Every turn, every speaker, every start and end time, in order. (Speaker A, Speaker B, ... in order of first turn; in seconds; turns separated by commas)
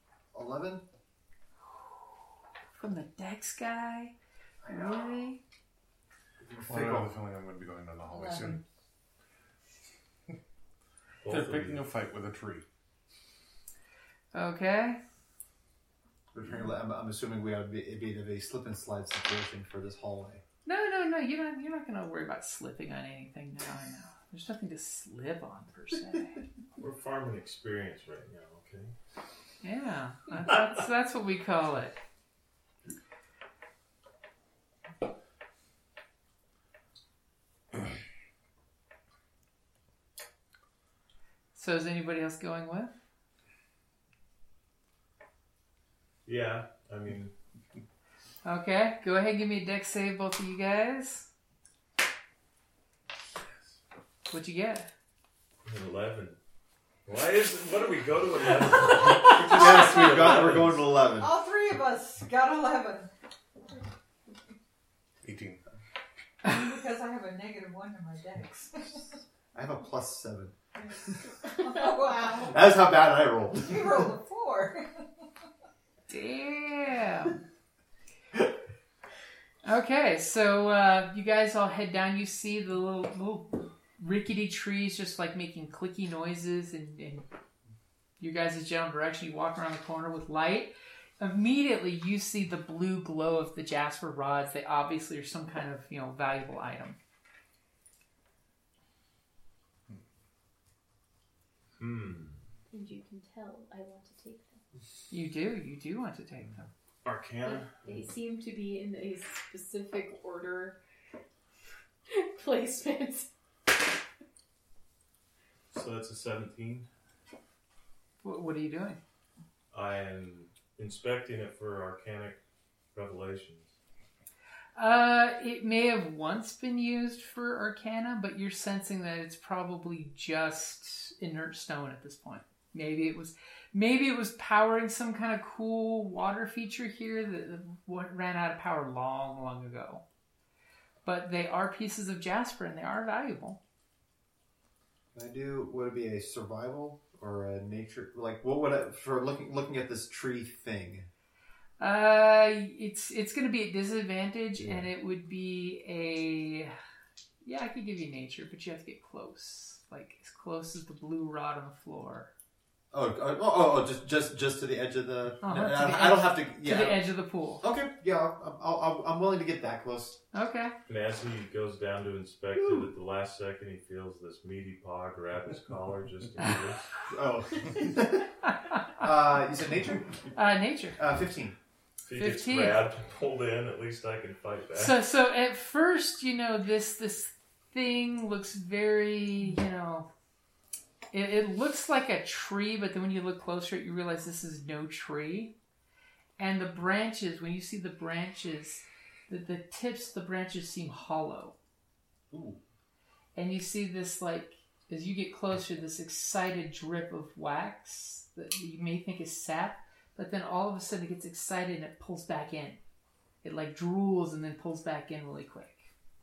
Speaker A: 0.3-0.8, Speaker B: 2.7-4.1, Speaker A: 4.6-5.0, Speaker B: 4.7-5.4, Speaker A: 6.4-7.1, Speaker C: 6.6-8.6, Speaker D: 8.1-8.6, Speaker E: 11.2-11.8, Speaker C: 11.2-12.6, Speaker B: 14.3-15.0, Speaker A: 16.3-20.4, Speaker B: 20.6-26.4, Speaker E: 26.8-28.9, Speaker B: 29.6-32.0, Speaker B: 41.5-43.0, Speaker E: 46.2-47.3, Speaker B: 48.4-51.3, Speaker B: 54.3-54.9, Speaker E: 55.6-56.4, Speaker E: 57.0-60.9, Speaker A: 59.3-61.3, Speaker D: 61.2-63.1, Speaker C: 65.2-65.6, Speaker D: 66.4-69.1, Speaker A: 69.5-70.5, Speaker D: 71.5-72.7, Speaker A: 72.5-74.1, Speaker D: 73.5-75.0, Speaker B: 76.1-77.4, Speaker B: 79.6-87.2, Speaker B: 88.2-97.0, Speaker E: 101.8-102.4, Speaker F: 102.7-104.6, Speaker B: 105.1-106.7, Speaker E: 107.0-107.7, Speaker F: 107.4-110.8, Speaker F: 112.1-113.3, Speaker E: 115.7-116.9, Speaker B: 118.2-119.0, Speaker E: 119.7-122.4, Speaker E: 122.9-123.7, Speaker B: 124.8-140.0, Speaker B: 141.0-143.6, Speaker A: 145.1-151.1, Speaker B: 151.8-156.8, Speaker A: 154.6-154.8, Speaker B: 157.4-162.3, Speaker A: 162.9-170.2, Speaker B: 165.4-167.6, Speaker B: 170.3-170.7, Speaker E: 170.9-176.8, Speaker A: 177.1-178.3, Speaker A: 179.0-180.1, Speaker B: 180.3-181.0, Speaker A: 181.0-181.6, Speaker E: 182.0-185.0, Speaker B: 182.2-182.8, Speaker B: 184.7-190.1, Speaker B: 191.1-195.5, Speaker B: 196.4-201.6, Speaker A: 202.3-202.6, Speaker B: 203.3-212.8, Speaker B: 213.4-215.9